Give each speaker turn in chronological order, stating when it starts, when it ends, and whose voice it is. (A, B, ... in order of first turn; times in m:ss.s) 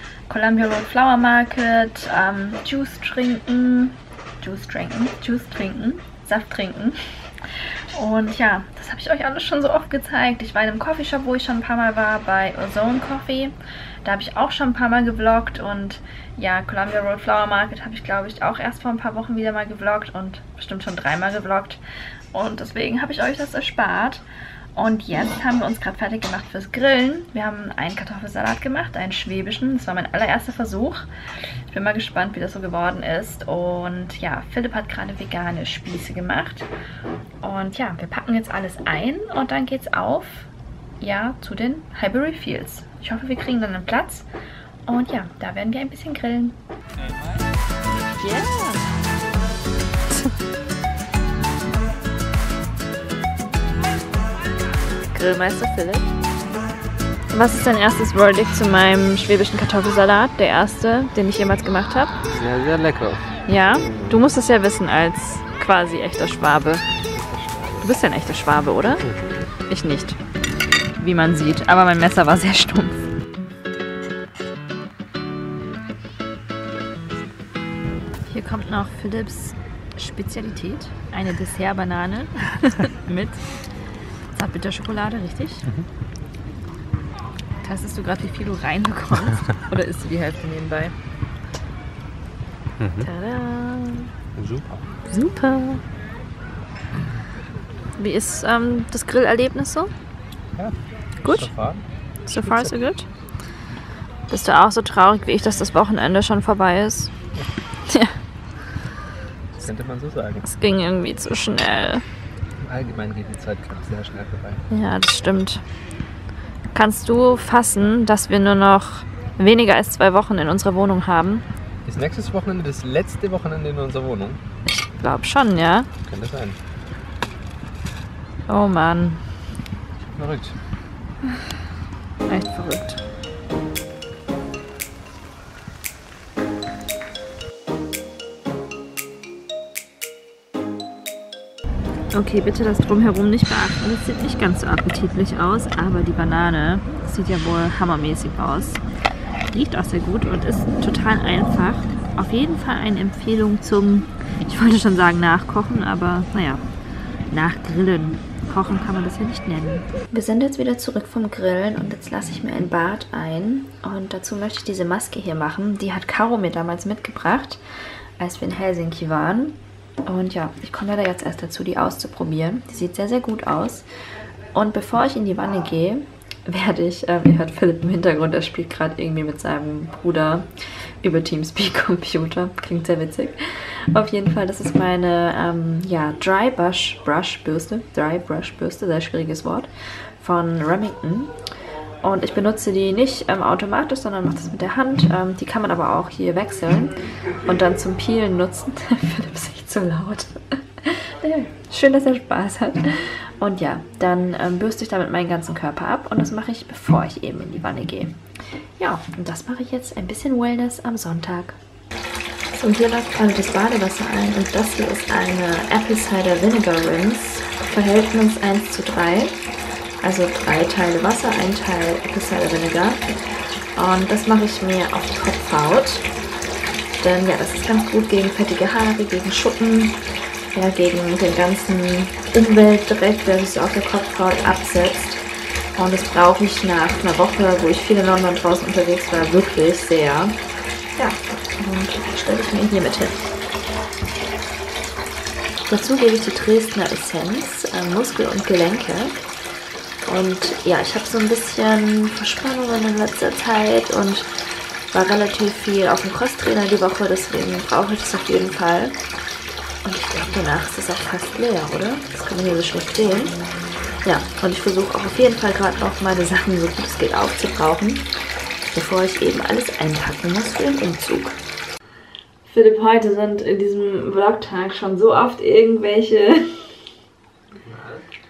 0:00.3-0:21.8 A
0:22.3-0:24.2 A
0:24.7-0:36.7 A
0:37.4-0:44.3 A
0:44.9-0:46.6 A
0:48.2-0:48.8 A
0:55.1-0:56.1 A
0:57.3-1:02.2 A
1:02.3-1:03.3 B
1:03.4-1:06.8 A
1:07.1-1:07.8 B
1:07.8-1:09.0 A
1:09.7-1:10.2 A
1:11.0-1:13.0 A
1:18.3-1:23.4 A
1:24.3-1:25.7 A
1:27.6-1:31.0 A
1:33.0-1:34.1 A
1:34.4-1:34.8 B
1:35.1-1:35.8 A
1:38.0-1:39.9 A
1:41.2-1:41.5 A
1:41.3-1:41.8 B
1:42.2-1:43.1 A
1:42.4-1:42.7 B
1:44.3-1:47.1 A
1:47.9-1:48.2 A
1:49.5-1:50.5 B
1:50.4-1:52.0 A
1:52.6-1:54.6 B
1:54.7-1:55.6 A
1:56.7-2:01.4 A
2:01.8-2:04.4 B
2:04.7-2:05.9 A
2:06.1-2:06.6 B
2:08.5-2:09.2 A
2:10.1-2:10.6 B
2:12.3-2:13.0 A
2:22.1-2:28.8 A
2:29.5-2:36.6 A
2:37.3-2:47.6 A
2:48.2-2:53.9 A
2:54.5-3:00.5 A
3:01.0-3:11.3 A
3:12.0-3:28.2 A
3:28.8-3:31.6 A
3:32.5-3:39.4 A
3:40.0-3:43.2 A
3:43.8-3:46.1 A
3:47.0-3:50.0 A
3:50.5-3:55.2 A
3:55.8-4:00.3 A
4:01.0-4:03.2 A
4:05.7-4:09.2 A
4:10.0-4:14.3 A
4:14.9-4:19.0 A
4:19.8-4:23.4 A
4:24.0-4:28.0 A
4:28.7-4:31.4 A
4:32.4-4:36.6 A
4:37.6-4:38.0 B